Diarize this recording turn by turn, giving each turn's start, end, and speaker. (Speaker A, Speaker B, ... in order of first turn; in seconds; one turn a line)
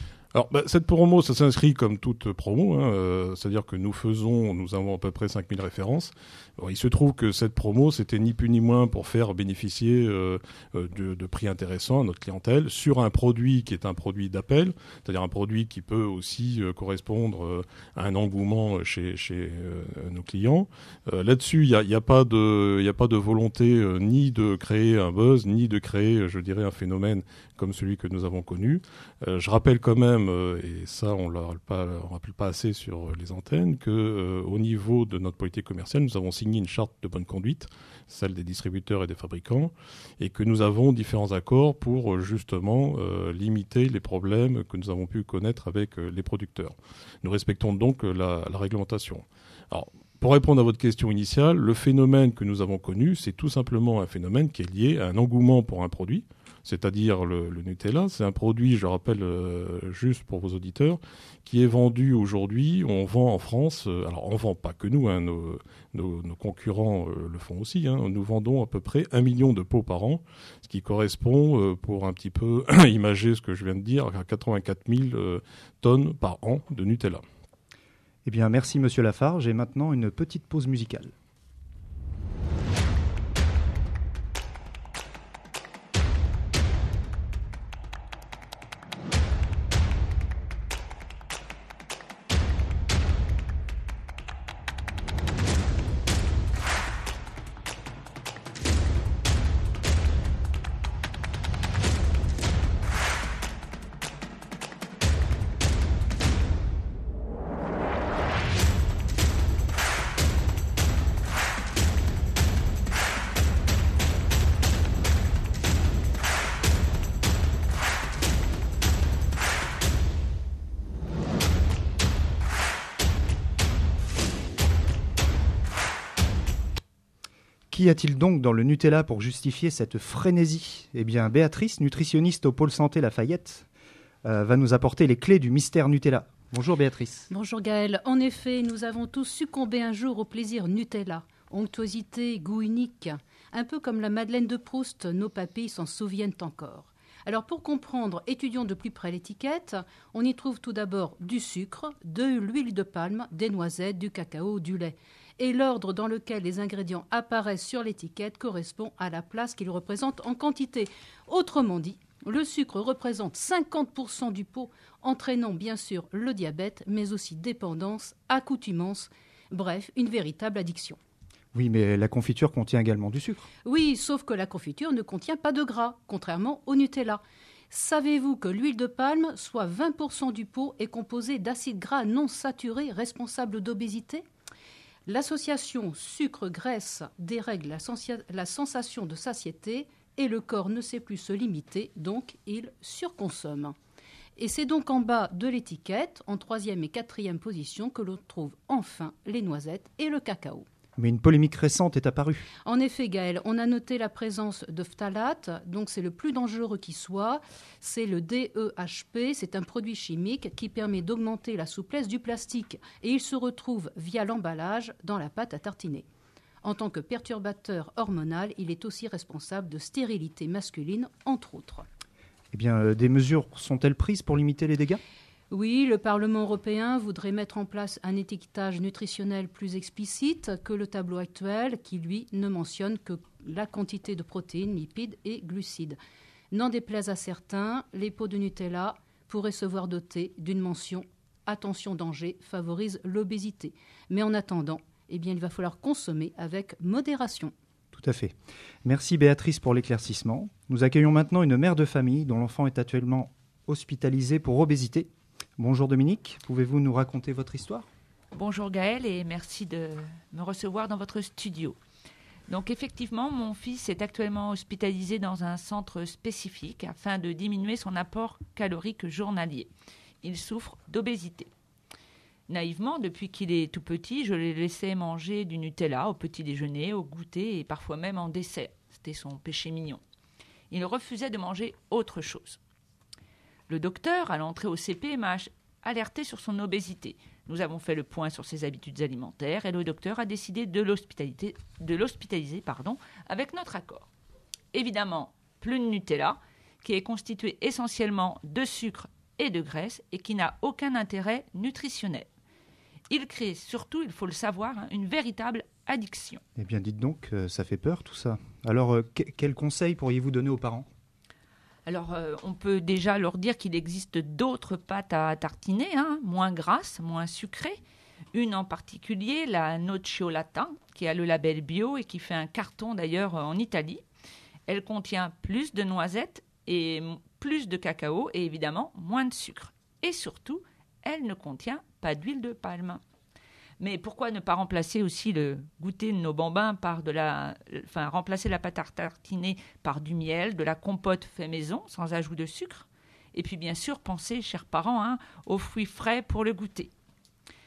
Speaker A: 0.3-77.2
Speaker B: 78.2-81.1
Speaker B: 127.7-133.7
Speaker B: 134.2-137.3
Speaker C: 137.3-171.0
Speaker B: 171.5-173.5
Speaker C: 173.6-184.2
Speaker C: 185.1-193.7
Speaker C: 194.3-200.7
Speaker B: 201.0-202.5
Speaker C: 202.6-216.1
Speaker C: 216.6-221.8
Speaker B: 222.5-225.0
Speaker C: 225.5-236.0
Speaker C: 236.5-247.5
Speaker B: 247.9-248.3
Speaker B: 248.8-257.9
Speaker D: 258.3-261.8
Speaker D: 262.5-269.7
Speaker D: 270.2-271.5
Speaker D: 272.5-280.0
Speaker D: 280.7-282.6
Speaker D: 283.7-294.1
Speaker D: 294.7-302.3
Speaker D: 303.1-306.4
Speaker B: 306.6-310.9
Speaker D: 311.9-317.8
Speaker D: 318.3-324.0
Speaker D: 324.7-333.0
Speaker D: 333.8-346.9